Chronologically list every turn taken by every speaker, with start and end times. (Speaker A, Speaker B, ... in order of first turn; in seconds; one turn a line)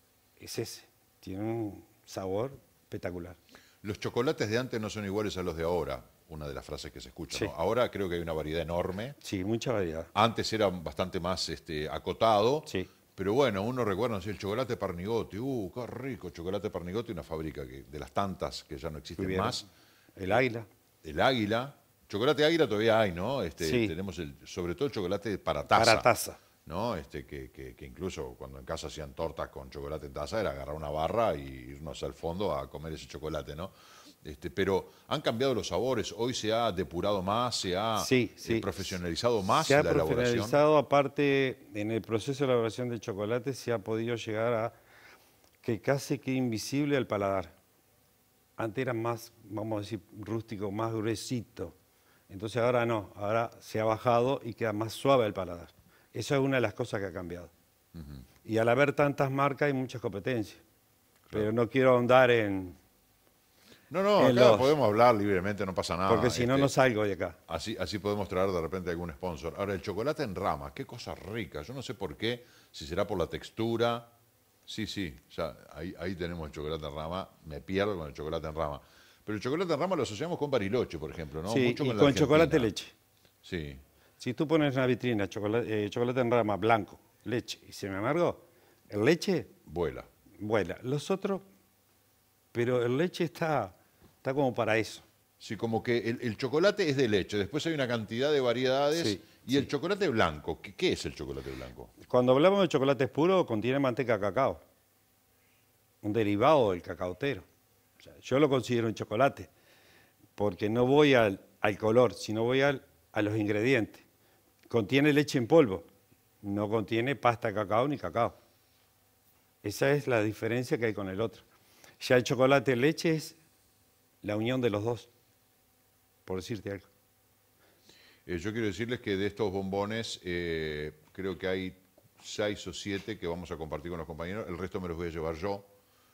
Speaker A: 0.4-3.4
Speaker B: 3.8-9.2
Speaker A: 9.2-10.1
Speaker B: 10.1-19.6
Speaker A: 19.2-19.6
Speaker A: 20.1-20.7
Speaker B: 21.0-26.1
Speaker A: 23.6-23.9
Speaker A: 25.7-26.4
Speaker B: 26.6-40.6
Speaker A: 38.0-38.8
Speaker A: 39.5-44.7
Speaker A: 45.6-47.5
Speaker A: 48.6-51.7
Speaker A: 52.3-57.5
Speaker B: 57.9-58.2
Speaker A: 58.4-60.6
Speaker A: 61.3-62.8
Speaker B: 63.9-66.7
Speaker A: 64.2-64.7
Speaker A: 66.1-67.4
Speaker B: 67.5-74.1
Speaker B: 74.7-82.7
Speaker A: 81.5-82.9
Speaker B: 83.4-83.8
Speaker A: 84.2-89.5
Speaker B: 89.7-90.1
Speaker A: 90.4-91.4
Speaker A: 92.5-95.0
Speaker B: 95.4-101.9
Speaker A: 98.9-99.7
Speaker A: 102.0-104.6
Speaker A: 106.0-107.5
Speaker A: 108.0-109.5
Speaker A: 110.4-114.0
Speaker A: 114.7-115.9
Speaker A: 116.4-118.4
Speaker A: 119.6-121.4
Speaker A: 122.0-123.4
Speaker A: 124.2-125.1
Speaker A: 126.2-126.9
Speaker B: 128.2-135.7